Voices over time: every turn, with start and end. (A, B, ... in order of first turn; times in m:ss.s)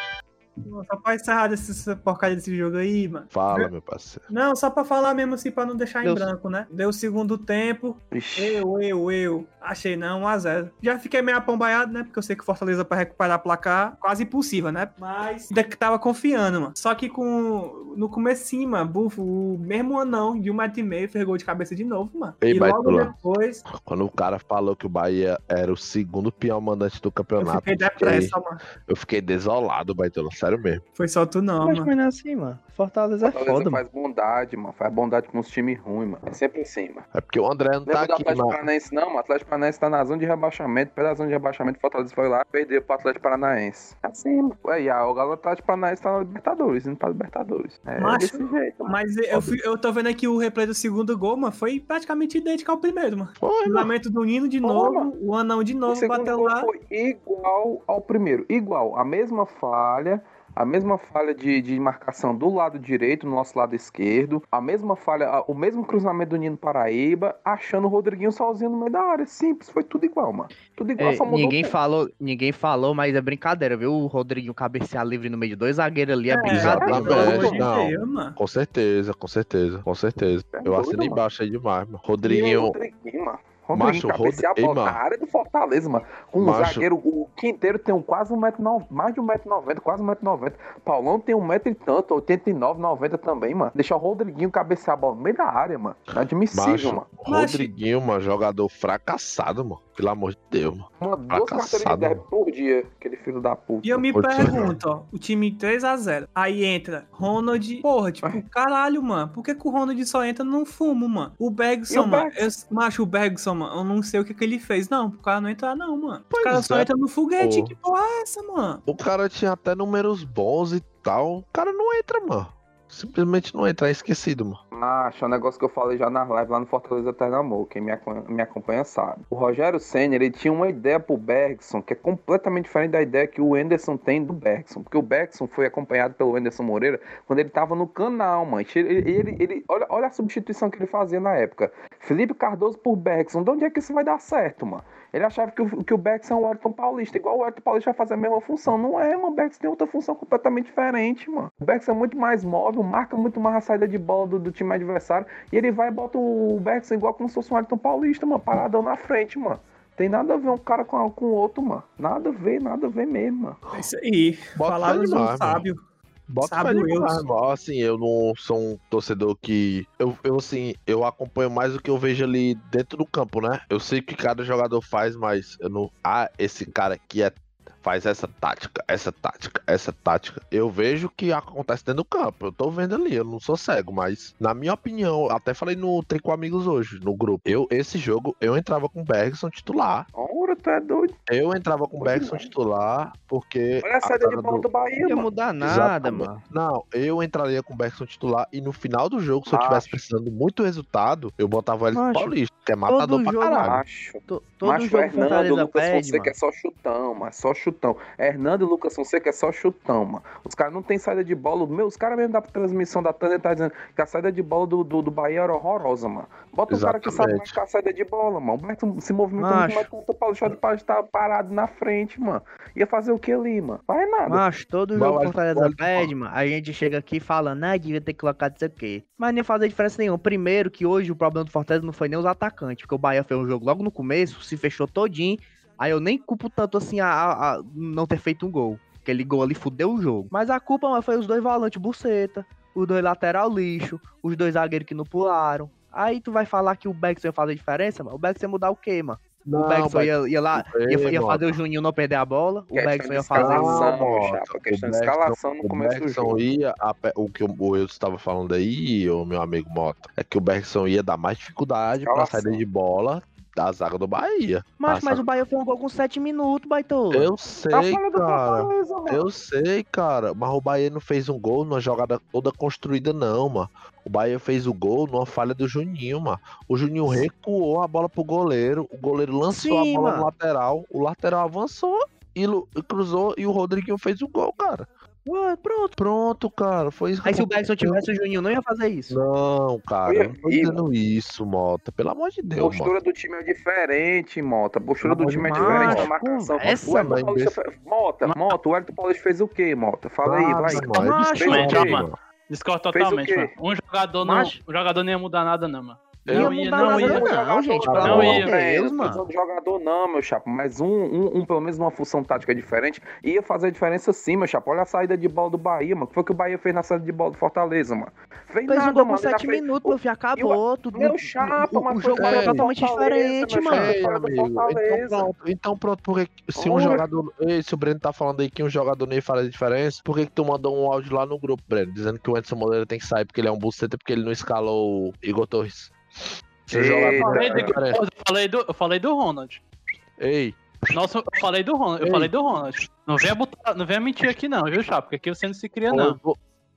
0:00.7-0:03.7 A
0:03.3-0:04.2 B
0:04.3-0:23.6 A
0:06.0-0:06.3 C
0:08.1-0:08.6 D
0:22.4-0:23.1 B
0:23.7-0:28.4 B
0:27.4-0:28.6 A
0:28.9-0:30.8 B
0:31.0-0:31.9 A
0:31.6-0:33.8 C
0:33.2-0:37.0 D
0:37.1-0:38.6 B
0:37.9-0:49.0 D
0:48.0-0:56.7 A
0:53.4-0:53.9 B
0:54.6-0:55.1 D
0:55.9-1:11.8 D
1:11.0-1:17.4 C
1:16.3-1:18.4 A
1:16.5-1:22.8 B
1:16.8-1:17.6 D
1:20.5-1:21.2 D
1:22.2-1:37.1 D
1:23.7-1:25.0 B
1:26.4-1:26.8 B
1:36.5-1:42.2 B
1:37.3-1:37.7 A
1:41.0-1:44.0 D
1:43.8-1:58.8 A
1:44.1-1:44.8 B
1:51.9-1:52.4 D
1:56.3-1:57.7 B
1:58.9-2:04.6 B
2:04.7-2:43.6 D
2:43.7-2:45.8 A
2:44.6-2:45.6 B
2:46.3-3:10.1 B
2:46.4-2:47.2 A
3:10.2-3:11.2 D
3:11.3-3:14.7 B
3:12.0-3:12.5 D
3:13.8-3:15.3 D
3:15.0-3:16.4 C
3:15.6-3:23.8 B
3:19.5-3:20.0 D
3:21.9-3:22.4 C
3:22.9-3:26.4 C
3:23.6-3:44.4 D
3:36.7-3:37.6 B
3:39.4-3:39.9 C
3:44.3-4:14.0 C
3:44.9-3:46.1 B
4:09.4-4:11.6 B
4:12.7-4:16.4 D
4:13.3-4:25.2 B
4:22.0-4:22.6 D
4:24.8-4:27.3 C
4:27.1-4:44.9 B
4:27.7-4:29.2 D
4:39.5-4:40.3 C
4:45.3-4:46.0 C
4:46.0-4:48.0 B
4:47.2-4:49.2 C
4:49.1-4:52.9 B
4:50.1-4:50.8 D
4:52.6-5:02.0 D
4:55.0-4:56.1 B
4:55.3-4:57.1 C
4:56.9-4:57.6 B
4:58.3-4:58.5 E
5:00.2-5:02.2 B
5:00.7-5:01.8 C
5:00.8-5:07.3 E
5:02.9-5:03.5 D
5:04.2-5:04.6 D
5:06.2-5:06.6 B
5:06.3-5:09.2 C
5:06.8-5:25.3 D
5:07.8-5:08.5 B
5:08.0-5:08.5 E
5:18.7-5:24.0 C
5:22.2-5:22.7 B
5:23.6-5:38.0 B
5:26.6-5:27.0 D
5:36.7-5:37.8 D
5:37.1-5:39.6 E
5:40.2-5:40.9 B
5:40.9-5:46.2 E
5:42.0-5:42.3 B
5:45.9-5:46.4 B